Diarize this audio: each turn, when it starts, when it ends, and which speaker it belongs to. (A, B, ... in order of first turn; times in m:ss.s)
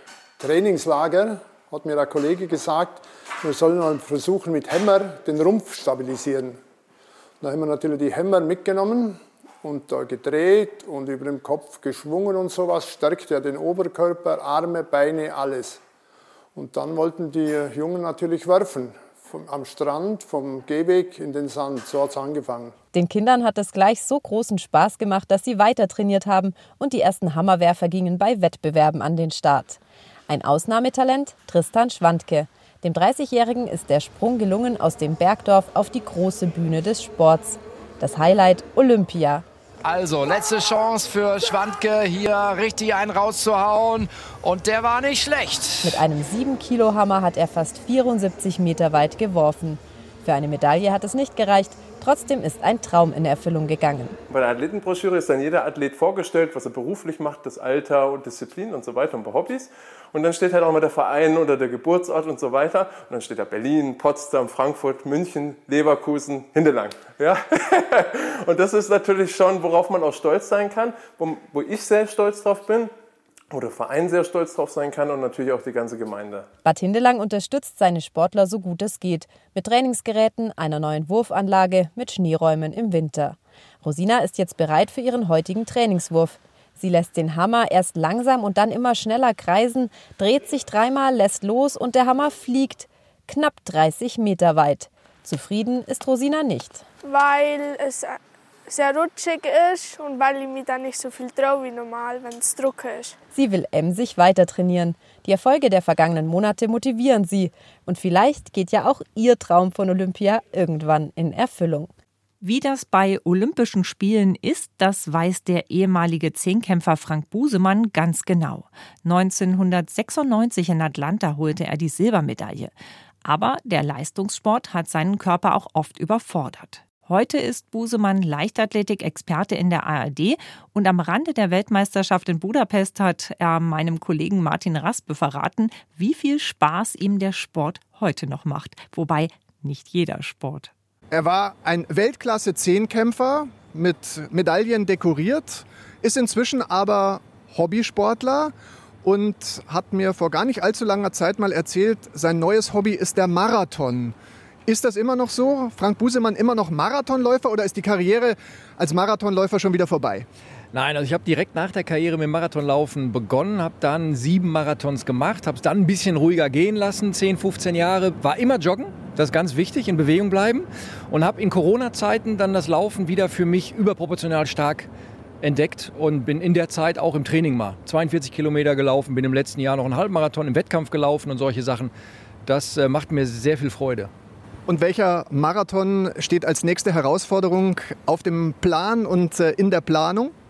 0:00.4-0:06.6 A
0:00.6-0:01.1 B
0:01.9-0:02.8 B
0:03.6-0:06.4 B
0:07.4-0:15.8 A
0:08.4-0:08.7 B
0:16.6-0:22.7 A
0:22.9-0:39.4 C
0:39.8-0:46.0 D
0:45.8-0:54.2 C
0:54.3-1:12.9 E
1:13.5-1:16.4 E
1:16.6-1:36.8 C
1:37.0-1:43.2 B
1:43.3-1:51.9 C
1:52.4-2:20.7 F
2:21.1-2:40.2 G
2:40.7-2:54.9 H
2:55.4-3:01.9 H
3:02.4-3:04.1 H
3:04.6-3:10.3 G